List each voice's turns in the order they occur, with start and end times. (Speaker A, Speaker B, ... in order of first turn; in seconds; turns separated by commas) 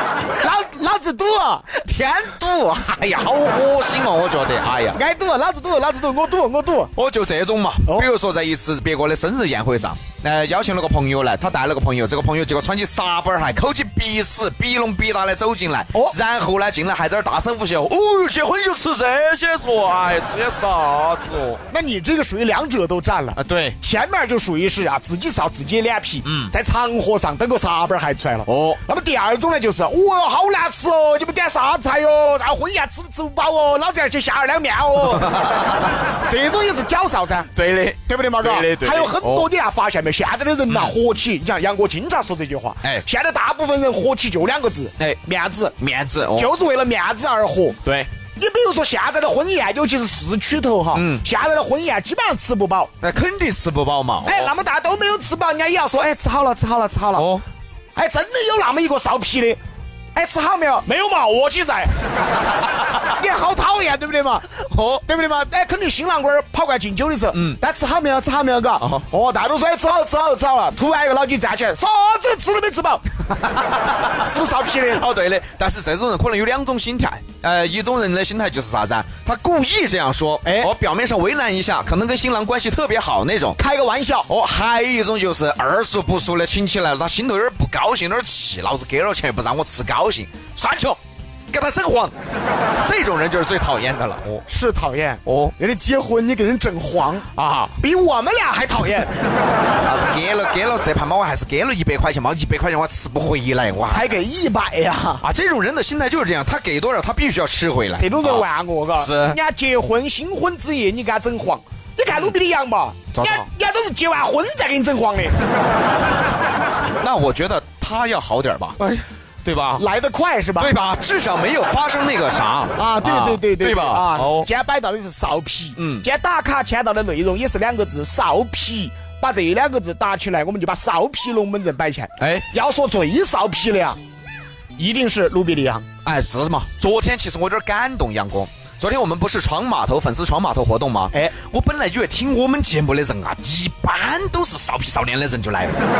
Speaker A: 0.4-1.7, Speaker B: 1.7-5.0, Speaker A: 4.9-6.9, Speaker B: 6.9-21.6, Speaker A: 21.7-35.7, Speaker B: 23.4-23.8, Speaker B: 26.2-26.5, Speaker B: 28.5-28.8, Speaker B: 35.1-35.9, Speaker A: 36.2-45.8, Speaker B: 37.5-39.5, Speaker B: 40.7-40.9, Speaker B: 45.8-46.5, Speaker A: 46.3-47.8, Speaker B: 47.8-48.1, Speaker A: 48.3-52.9, Speaker B: 50.9-51.2, Speaker B: 53.0-54.5, Speaker A: 54.2-57.3, Speaker B: 57.1-57.4, Speaker A: 58.0-59.6, Speaker A: 60.1-62.0, Speaker A: 63.0-64.5, Speaker B: 64.6-65.0, Speaker A: 65.0-73.0, Speaker B: 67.3-67.6, Speaker B: 68.8-69.0, Speaker B: 73.3-74.2, Speaker A: 74.2-75.0, Speaker B: 74.7-83.6, Speaker A: 80.4-80.7, Speaker A: 83.6-84.3, Speaker B: 84.3-92.1, Speaker B: 92.8-94.4, Speaker A: 94.5-99.1, Speaker B: 95.2-95.5, Speaker B: 97.3-97.7, Speaker B: 99.8-104.0, Speaker A: 103.9-105.2, Speaker B: 105.2-109.4, Speaker A: 108.0-115.4, Speaker B: 113.1-113.4, Speaker B: 117.0-118.8, Speaker A: 118.8-119.0, Speaker B: 119.4-119.8, Speaker A: 119.8-120.7, Speaker B: 120.6-124.5, Speaker A: 122.8-134.0, Speaker B: 125.8-126.0, Speaker B: 132.2-132.5, Speaker A: 134.8-135.9, Speaker B: 136.0-145.8